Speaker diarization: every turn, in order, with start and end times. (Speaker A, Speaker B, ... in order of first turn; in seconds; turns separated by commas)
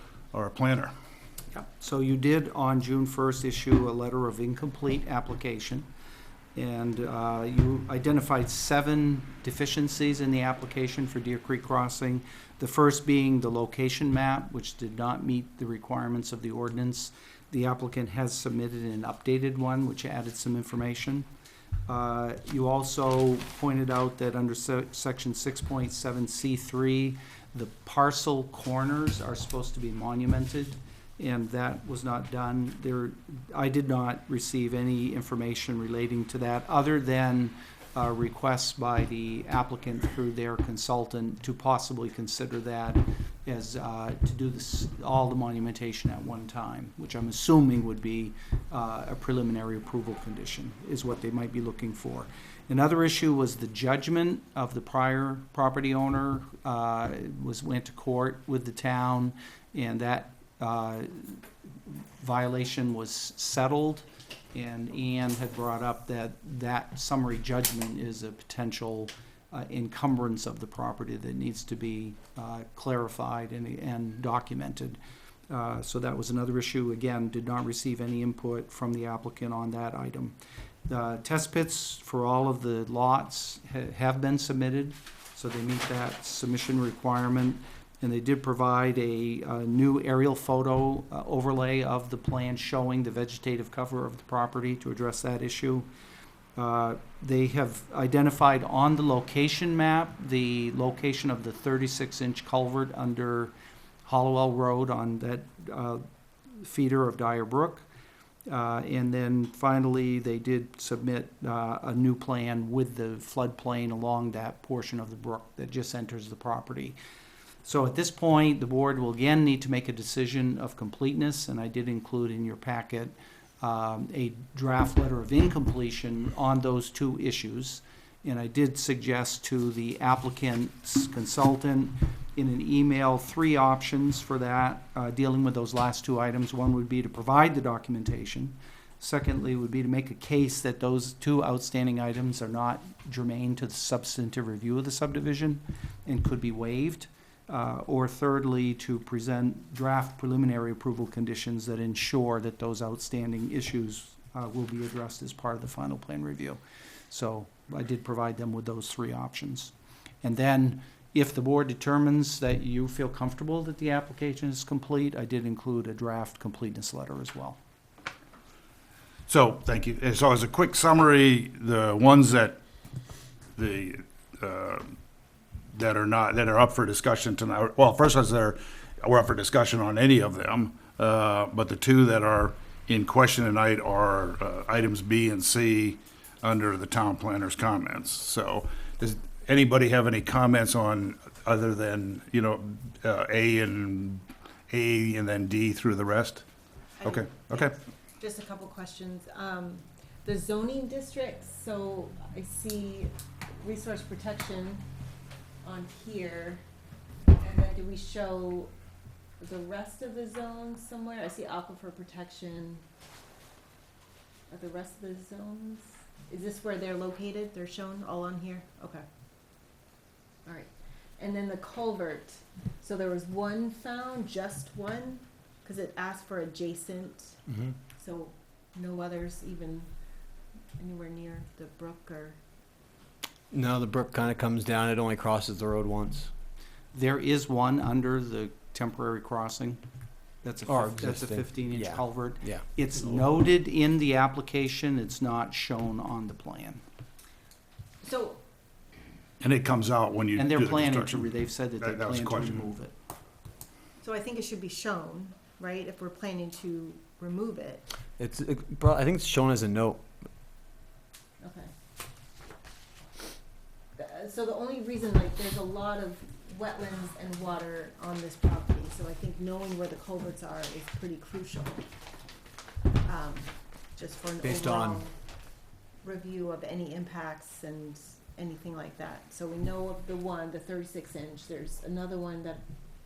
Speaker A: 0.3-0.9, Speaker B: 1.5-5.9, Speaker B: 6.5-21.3, Speaker B: 21.9-75.0, Speaker B: 75.5-95.9, Speaker B: 96.5-103.5, Speaker B: 104.0-107.8, Speaker B: 108.5-117.0, Speaker B: 117.6-167.6, Speaker A: 169.3-172.6, Speaker A: 173.6-174.9, Speaker A: 175.7-196.4, Speaker C: 197.0-204.8, Speaker A: 197.0-197.7, Speaker C: 205.6-206.6, Speaker C: 207.4-208.7, Speaker C: 209.4-212.8, Speaker C: 214.5-219.0, Speaker C: 220.4-227.4, Speaker C: 228.0-229.9, Speaker C: 230.8-232.4, Speaker D: 233.5-236.3, Speaker B: 236.9-239.8, Speaker B: 240.4-246.8, Speaker D: 240.7-242.6, Speaker C: 248.0-248.4, Speaker A: 249.4-252.7, Speaker B: 250.3-252.9, Speaker C: 254.0-257.9, Speaker D: 258.2-260.1, Speaker C: 261.4-261.7, Speaker C: 264.0-271.8, Speaker C: 273.0-275.1, Speaker D: 274.4-275.0, Speaker C: 276.0-282.6